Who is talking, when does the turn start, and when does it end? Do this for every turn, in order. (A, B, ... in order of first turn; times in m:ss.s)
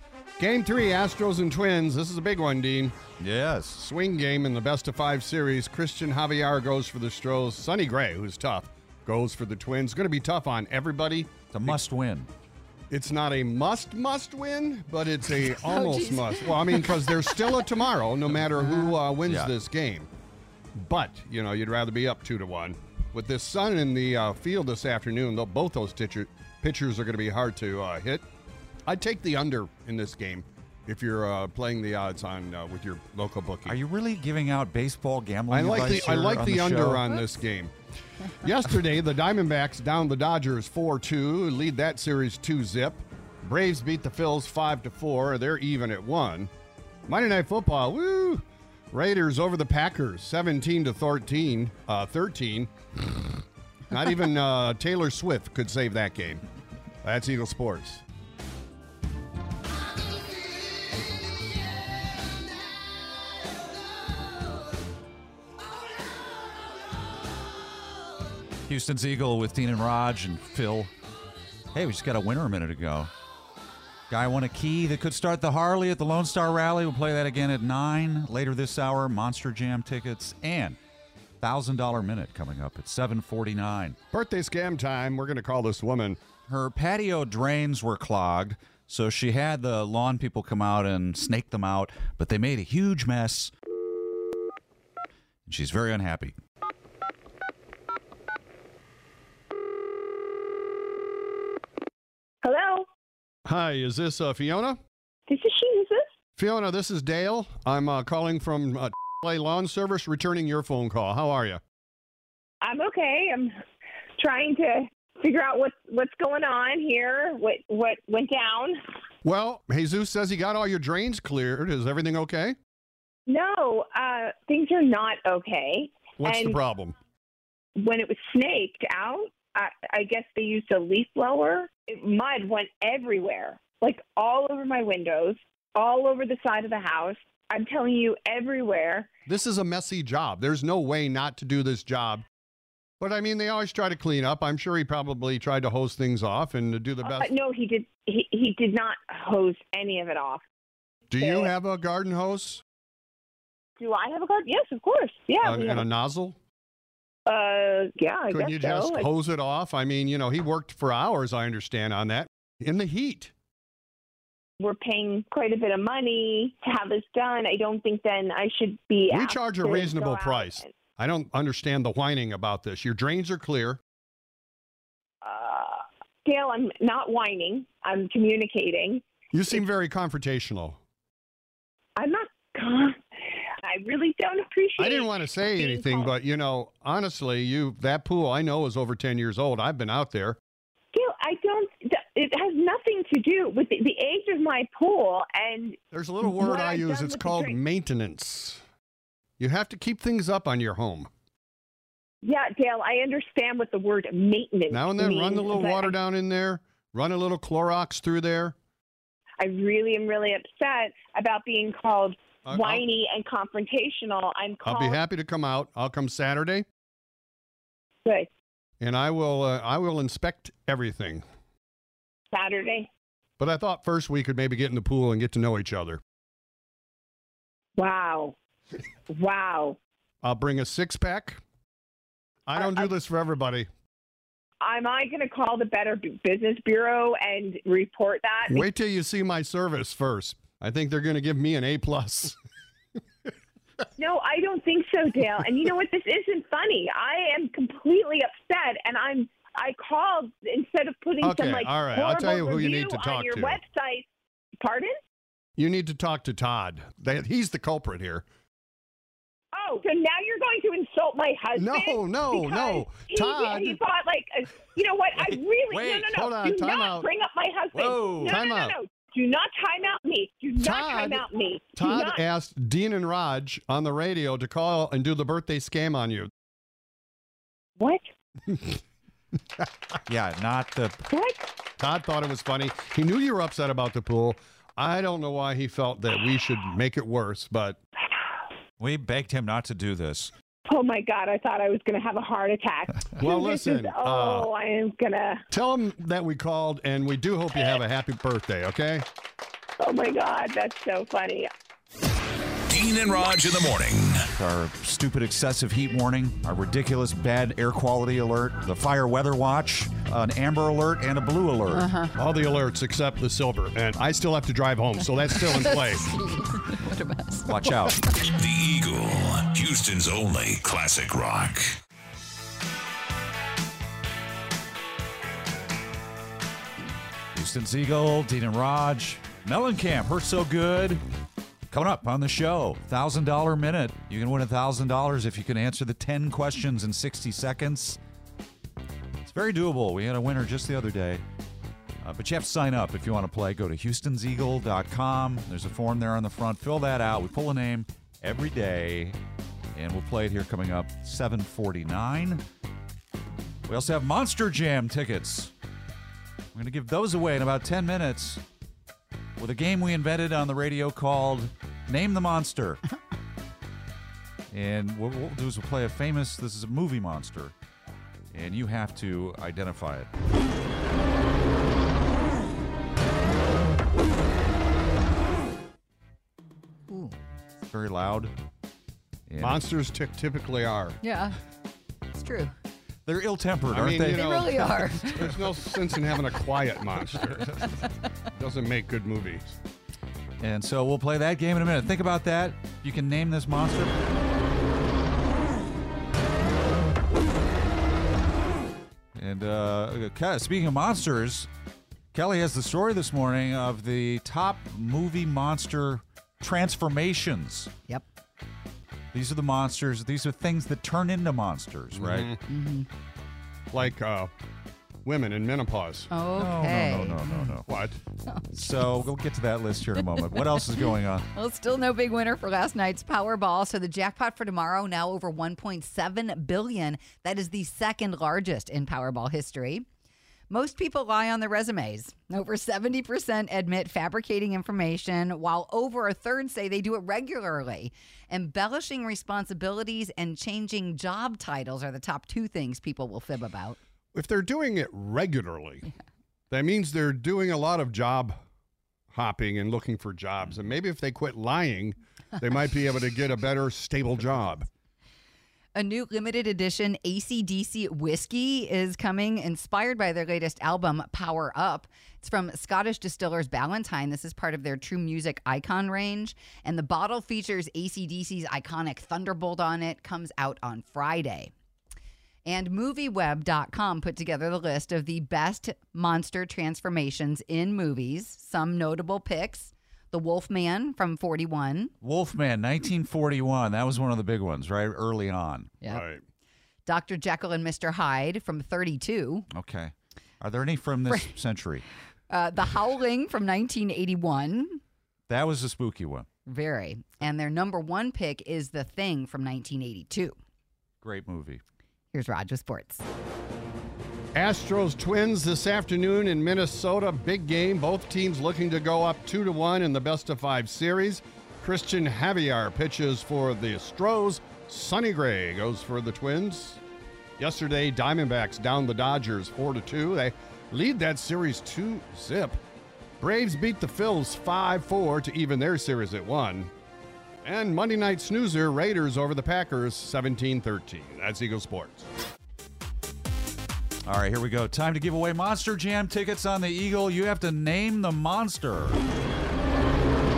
0:00.4-0:03.0 A
0:03.2-0:03.8 B
0:03.8-0:11.8 A
0:11.5-0:12.3 B
0:12.9-0:20.1 A
0:15.6-0:17.6 C
0:18.6-0:19.0 C
0:19.2-0:19.5 B
0:20.8-0:28.2 A
0:28.9-0:33.8 A
0:33.7-0:37.1 B
0:35.5-0:37.7 A
0:38.4-0:46.5 A
0:47.1-0:52.7 A
0:53.9-0:56.4 A
0:57.0-0:58.0 A
1:08.7-1:10.9 B
1:11.7-1:13.1 B
1:14.1-1:20.8 B
1:21.4-1:24.0 B
1:24.1-1:26.2 A
1:26.5-1:33.5 B
1:35.5-1:36.4 B
1:42.4-1:42.9 D
1:43.5-1:44.8 A
1:45.3-1:46.1 D
1:46.4-1:51.6 A
1:52.6-1:53.6 D
1:54.2-1:58.8 D
1:59.2-2:02.6 A
2:03.3-2:06.6 D
2:06.2-2:07.0 A
2:07.8-2:19.1 D
2:19.3-2:22.2 A
2:23.0-2:27.3 A
2:27.0-2:30.4 D
2:31.1-2:32.6 A
2:31.2-2:31.5 D
2:33.8-2:35.9 D
2:35.4-2:36.4 A
2:37.3-2:39.1 D
2:38.3-2:43.3 A
2:44.6-2:50.7 D
2:49.1-2:53.8 A
2:55.2-2:59.6 D
2:59.3-3:00.8 A
3:02.0-3:03.0 D
3:03.6-3:06.1 D
3:04.8-3:10.4 A
3:10.9-3:17.6 D
3:15.9-3:18.6 A
3:19.4-3:21.1 A
3:22.2-3:26.0 D
3:24.7-3:28.6 A
3:29.4-3:35.0 D
3:32.5-3:32.8 A
3:34.6-3:36.7 A
3:38.8-3:41.2 A
3:42.3-3:42.9 D
3:43.4-3:46.0 A
3:47.8-3:48.4 D
3:49.1-3:49.8 D
3:50.2-3:51.4 A
3:52.5-3:53.7 A
3:52.5-3:52.9 D
3:54.6-3:58.6 D
3:58.5-4:02.4 A
4:04.0-4:14.1 D
4:11.2-4:13.6 A
4:14.6-4:15.0 D
4:15.6-4:18.2 A
4:19.5-4:32.2 D
4:21.6-4:23.8 A
4:25.7-4:26.1 B
4:26.1-4:27.1 A
4:27.7-4:28.4 B
4:28.2-4:28.8 A
4:30.6-4:36.3 A
4:37.8-4:38.0 D
4:38.5-4:38.8 A
4:40.1-4:41.0 B
4:41.1-4:41.4 D
4:41.8-4:47.8 A
4:48.8-4:50.3 B
4:50.7-4:55.4 D
4:53.2-4:54.5 A
4:55.5-4:59.1 A
4:59.8-5:01.5 D
5:02.7-5:04.3 E
5:04.3-5:11.9 B
5:11.7-5:12.1 C
5:12.2-5:16.1 A
5:15.4-5:17.5 C
5:17.5-5:18.0 B
5:18.2-5:21.8 E
5:27.3-5:31.0 B
5:31.7-5:38.0 B
5:39.2-5:41.2 B
5:42.0-5:49.2 B
5:49.7-5:52.4 B
5:53.7-5:55.5 B
5:56.5-5:58.4 B
5:59.4-6:02.8 B
6:04.5-6:07.5 B
6:08.3-6:10.1 B
6:16.9-6:17.2 C
6:17.6-6:18.3 B
6:19.3-6:19.6 B
6:19.4-6:21.0 A
6:21.0-6:21.4 C
6:22.1-6:22.5 C
6:23.1-6:24.5 B
6:23.7-6:27.5 A
6:24.1-6:25.3 C
6:28.4-6:29.6 A
6:30.4-6:34.0 B
6:39.2-6:41.5 B
6:42.1-6:47.7 B
6:49.1-6:52.3 B
6:52.0-6:52.4 A
6:52.5-6:52.9 C
6:53.7-6:54.3 A
6:55.0-6:56.1 A
6:56.1-6:57.6 C
6:56.4-6:57.7 B
6:57.7-6:58.0 A
6:58.2-6:58.5 C
6:58.5-7:01.3 B
7:01.3-7:09.9 C
7:10.5-7:23.8 C
7:24.1-7:25.9 A
7:26.5-7:28.4 A
7:29.1-7:34.7 A
7:35.8-7:51.5 C
7:52.5-8:01.9 C
8:02.0-8:05.7 B
8:05.9-8:06.2 A
8:06.9-8:09.5 C
8:09.5-8:11.8 B
8:12.3-8:14.8 C
8:15.3-8:16.3 B
8:16.5-8:20.4 C
8:21.0-8:21.6 B
8:22.1-8:23.0 C
8:24.4-8:36.8 A
8:37.4-8:42.6 A
8:43.2-8:46.7 A
8:47.4-8:52.1 A
8:54.1-8:59.0 B